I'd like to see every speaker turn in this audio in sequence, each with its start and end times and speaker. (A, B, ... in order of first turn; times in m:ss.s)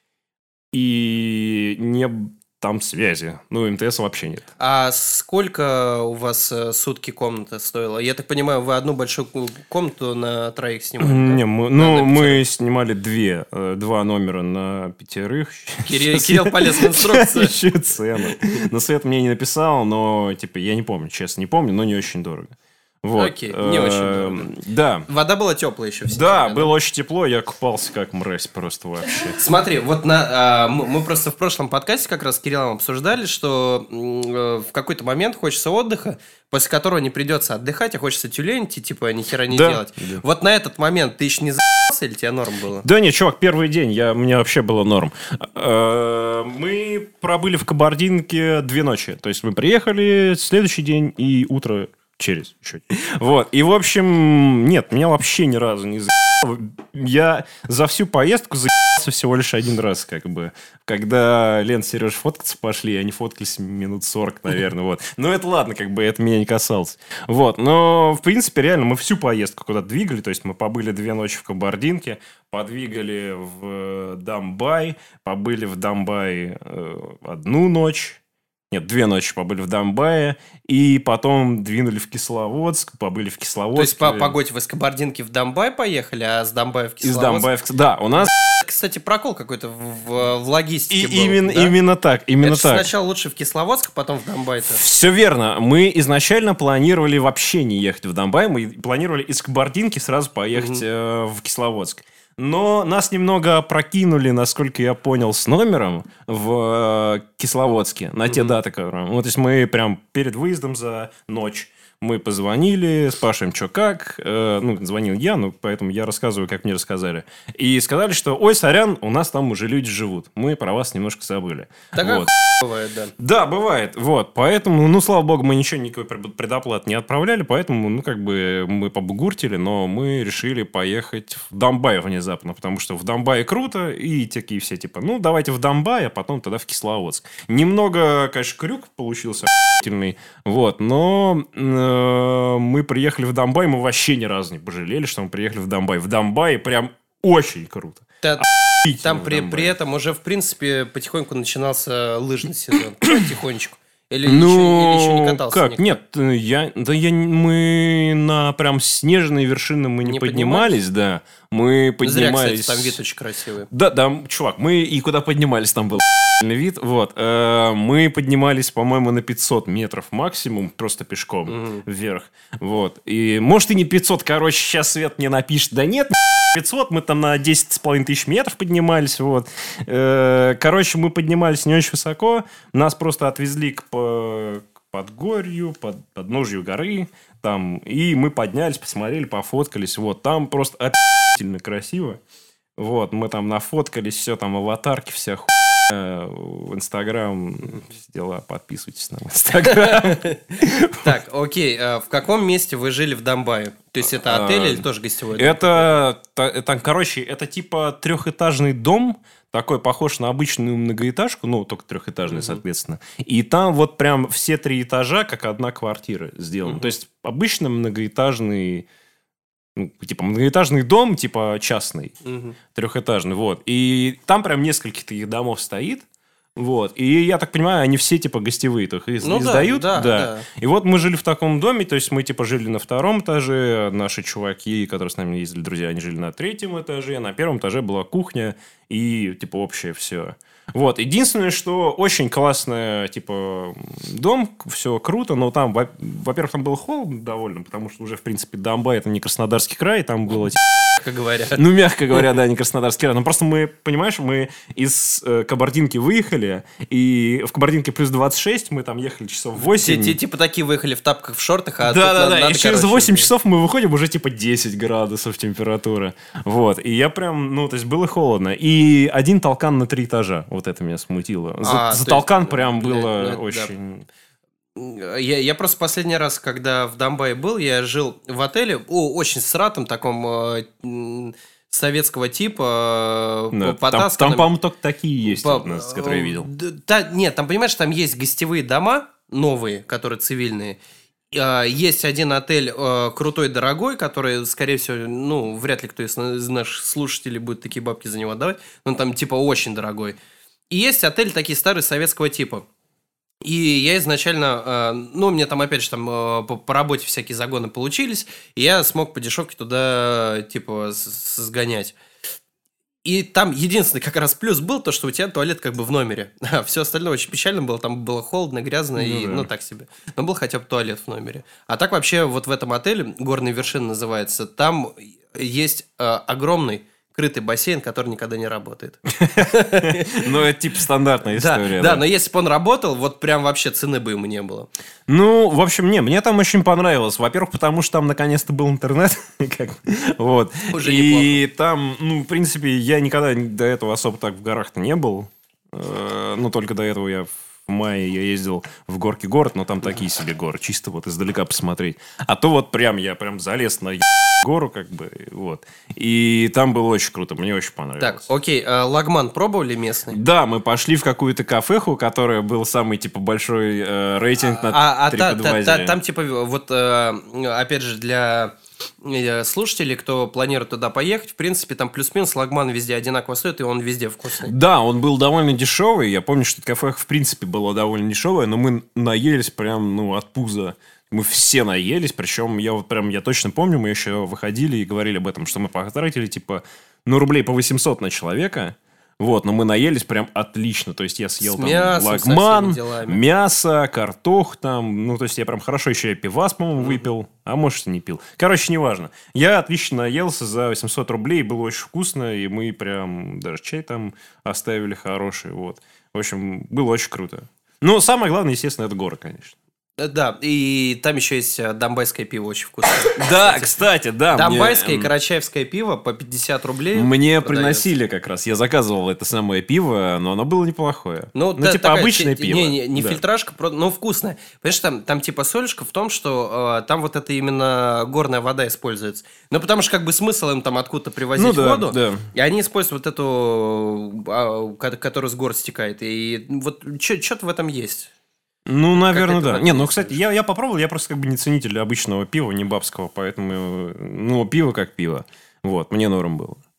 0:00.7-0:04.5 A
0:04.6-0:12.4 B
0:11.0-0:25.1 A
0:15.9-0:17.6 B
0:23.2-0:24.5 B
0:25.1-0:26.7 B
0:26.1-0:29.4 A
0:29.4-0:42.8 B
0:39.5-0:40.2 A
0:42.8-1:18.2 A
1:18.7-1:24.4 A
1:23.8-1:27.5 B
1:27.0-1:28.3 A
1:28.2-1:31.8 B
1:30.9-1:32.9 A
1:32.4-1:34.8 B
1:34.6-2:02.3 A
1:40.6-1:40.8 B
1:48.3-1:48.5 B
2:01.9-2:03.1 B
2:03.2-2:29.8 A
2:28.2-2:36.0 B
2:34.2-2:43.0 A
2:40.0-2:40.8 B
2:42.0-2:43.7 B
2:43.7-3:12.2 A
2:51.5-2:51.8 B
3:12.8-3:21.1 A
3:19.6-3:26.0 B
3:24.1-3:38.9 A
3:32.3-3:32.6 B
3:39.8-3:42.2 A
3:42.2-3:42.6 B
3:42.7-3:46.0 A
3:46.6-4:10.6 A
3:49.2-3:50.5 B
4:11.0-4:11.6 B
4:11.6-4:20.2 A
4:19.8-4:23.3 B
4:21.8-4:34.1 A
4:31.6-4:33.7 B
4:34.8-4:44.5 B
4:43.5-4:46.5 A
4:45.3-4:50.8 B
4:51.3-5:00.2 B
5:00.7-5:02.7 B
5:03.4-5:12.0 B
5:13.0-5:30.3 B
5:19.0-5:19.5 A
5:29.2-5:32.0 A
5:31.3-5:34.7 B
5:35.1-5:58.3 A
5:40.7-5:41.4 B
5:58.0-6:00.2 B
6:00.1-6:06.0 A
6:04.4-6:14.5 B
6:14.4-6:49.6 A
6:31.4-6:33.2 B
6:50.0-6:57.9 B
6:53.2-6:55.1 A
6:56.9-7:03.2 A
7:01.3-7:18.1 B
7:11.4-7:12.3 A
7:18.7-7:26.6 A
7:19.0-7:20.2 B